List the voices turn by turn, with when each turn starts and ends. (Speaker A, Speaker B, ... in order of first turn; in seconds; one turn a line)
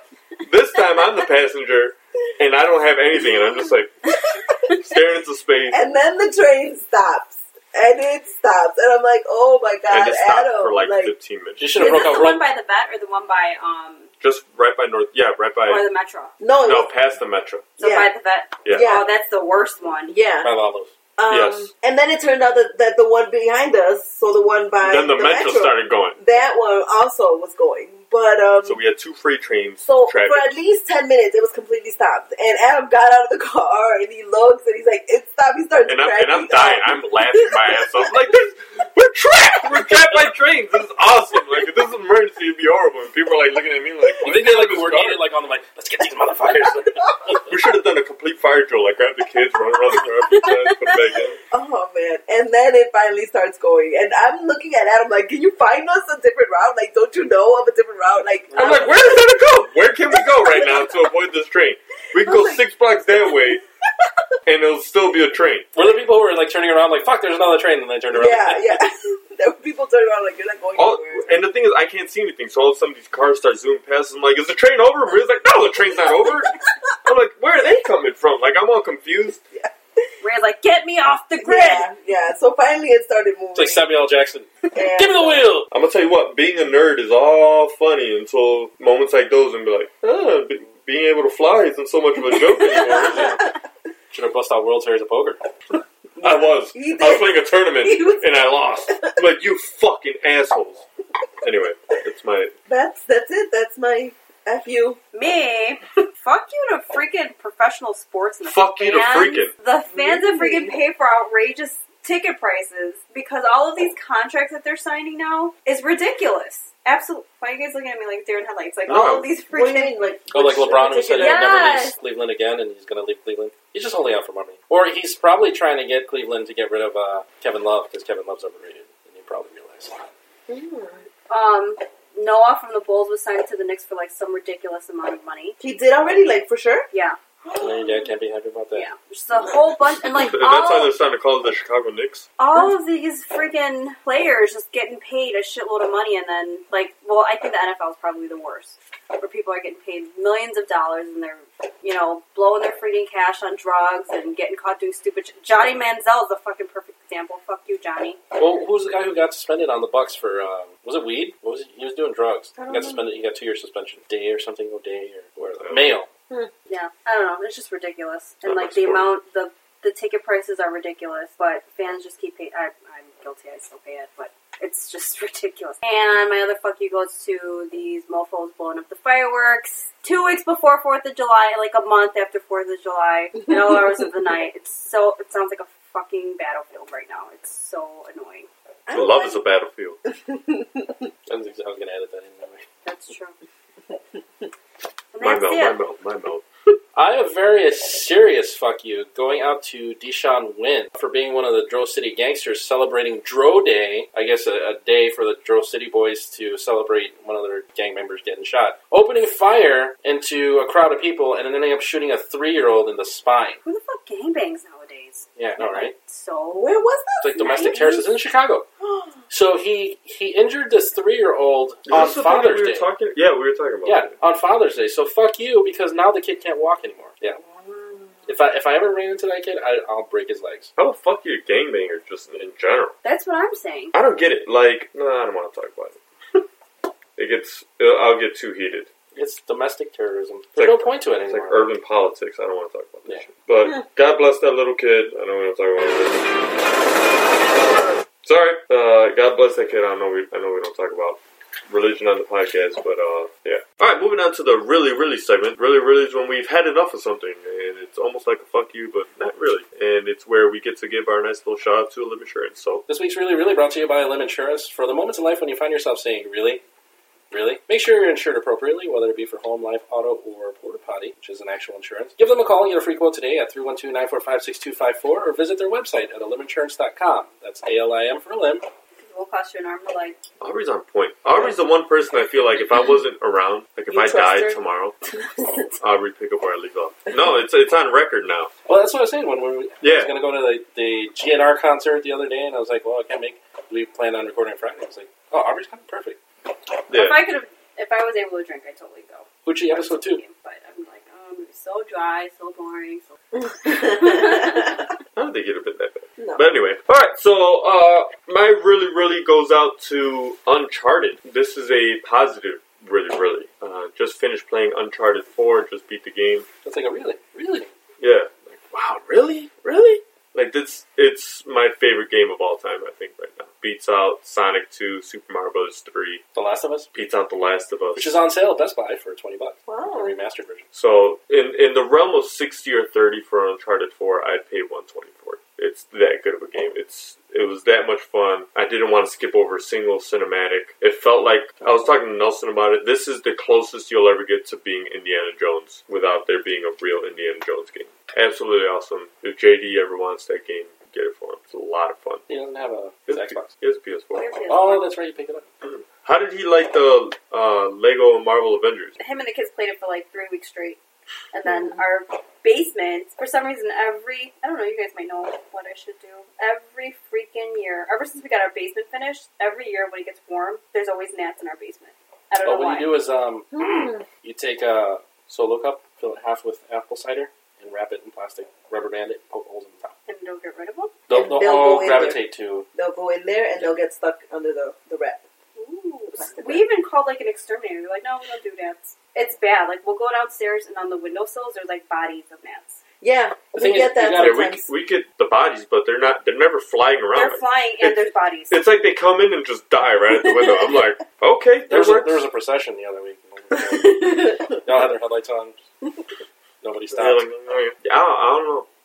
Speaker A: 0.4-5.9
Speaker B: 5.7-11.1
Speaker A: 9.9-11.8
Speaker C: 11.6-12.4
Speaker B: 11.8-12.2
Speaker D: 11.8-14.1
Speaker A: 14.2-15.8
Speaker D: 15.7-16.3
Speaker B: 16.4-16.9
Speaker A: 16.6-17.7
Speaker D: 17.8-20.1
Speaker B: 17.8-18.1
Speaker A: 18.6-18.9
Speaker B: 18.7-19.1
Speaker B: 20.1-20.5
Speaker C: 20.4-20.9
Speaker B: 21.2-28.8
Speaker A: 21.3-21.7
Speaker A: 24.8-26.2
Speaker A: 28.6-30.5
Speaker B: 29.8-37.9
Speaker A: 35.9-45.2
Speaker C: 44.2-47.4
Speaker A: 47.4-51.4
Speaker B: 51.5-59.2
Speaker C: 58.5-58.9
Speaker A: 58.5-63.6
Speaker B: 60.1-61.0
Speaker B: 62.1-64.1
Speaker A: 64.5-65.7
Speaker C: 65.8-68.8
Speaker B: 68.1-71.4
Speaker A: 70.8-79.4
Speaker B: 76.1-76.5
Speaker D: 80.2-81.9
Speaker B: 81.4-83.9
Speaker C: 83.5-85.7
Speaker B: 84.7-85.5
Speaker A: 85.7-93.5
Speaker B: 92.2-93.5
Speaker C: 92.8-93.4
Speaker C: 94.1-95.4
Speaker B: 96.2-99.2
Speaker A: 96.2-100.8
Speaker A: 101.4-102.5
Speaker B: 102.7-105.0
Speaker D: 105.1-120.0
Speaker A: 108.4-109.5
Speaker B: 109.9-110.8
Speaker A: 118.9-119.3
Speaker B: 119.5-121.6
Speaker C: 120.3-130.1
Speaker D: 121.2-122.0
Speaker B: 130.5-131.1
Speaker D: 131.3-135.6
Speaker B: 135.6-136.9
Speaker D: 136.9-137.2
Speaker B: 137.4-138.1
Speaker C: 137.6-138.9
Speaker D: 138.7-140.9
Speaker A: 140.1-142.3
Speaker D: 142.4-158.2
Speaker C: 158.4-166.1
Speaker B: 162.6-163.1
Speaker A: 165.6-166.0
Speaker D: 166.7-188.5
Speaker A: 168.4-169.1
Speaker B: 188.9-189.4
Speaker A: 188.9-190.0
Speaker B: 190.1-191.0
Speaker C: 191.3-192.7
Speaker D: 192.8-193.3
Speaker D: 195.1-195.8
Speaker A: 195.2-196.7
Speaker C: 196.9-213.6
Speaker D: 213.7-216.8
Speaker C: 215.4-215.9
Speaker B: 216.5-218.0
Speaker C: 217.2-218.7
Speaker D: 217.4-218.0
Speaker B: 218.8-219.2
Speaker C: 219.3-222.9
Speaker A: 221.9-224.1
Speaker C: 223.8-227.4
Speaker B: 227.4-228.3
Speaker C: 228.3-230.7
Speaker A: 230.8-233.0
Speaker D: 233.0-233.9
Speaker A: 233.9-236.0
Speaker A: 237.2-238.9
Speaker C: 239.2-241.7
Speaker A: 240.6-246.3
Speaker A: 248.2-262.9
Speaker C: 262.9-266.6
Speaker C: 267.3-278.6
Speaker D: 279.0-280.2
Speaker A: 280.4-285.0
Speaker B: 283.9-284.6
Speaker B: 285.4-285.7
Speaker A: 285.8-288.5
Speaker C: 288.7-296.2
Speaker A: 289.8-290.1
Speaker A: 296.9-297.2
Speaker D: 296.9-304.8
Speaker C: 299.5-300.2
Speaker B: 303.4-304.8
Speaker A: 305.2-316.5
Speaker B: 306.2-306.5
Speaker C: 316.6-317.7
Speaker A: 318.0-326.2
Speaker C: 326.3-326.9
Speaker A: 326.9-328.2
Speaker C: 327.9-330.6
Speaker B: 329.7-330.1
Speaker A: 330.7-352.2
Speaker C: 352.3-353.5
Speaker A: 353.1-354.3
Speaker D: 354.1-354.9
Speaker C: 354.5-355.4
Speaker A: 355.6-359.0
Speaker D: 359.0-360.8
Speaker D: 361.3-372.9
Speaker B: 361.5-361.8
Speaker C: 372.4-379.9
Speaker B: 373.5-374.1
Speaker D: 380.1-380.9
Speaker C: 381.1-382.7
Speaker B: 381.1-382.2
Speaker B: 382.8-385.2
Speaker D: 385.6-392.8
Speaker B: 386.1-386.7
Speaker B: 393.0-394.7
Speaker C: 393.6-394.5
Speaker A: 394.2-397.9
Speaker D: 397.1-398.6
Speaker A: 398.5-402.2
Speaker B: 399.8-400.9
Speaker C: 401.7-405.6
Speaker B: 403.5-404.6
Speaker C: 406.6-407.2
Speaker A: 406.9-408.7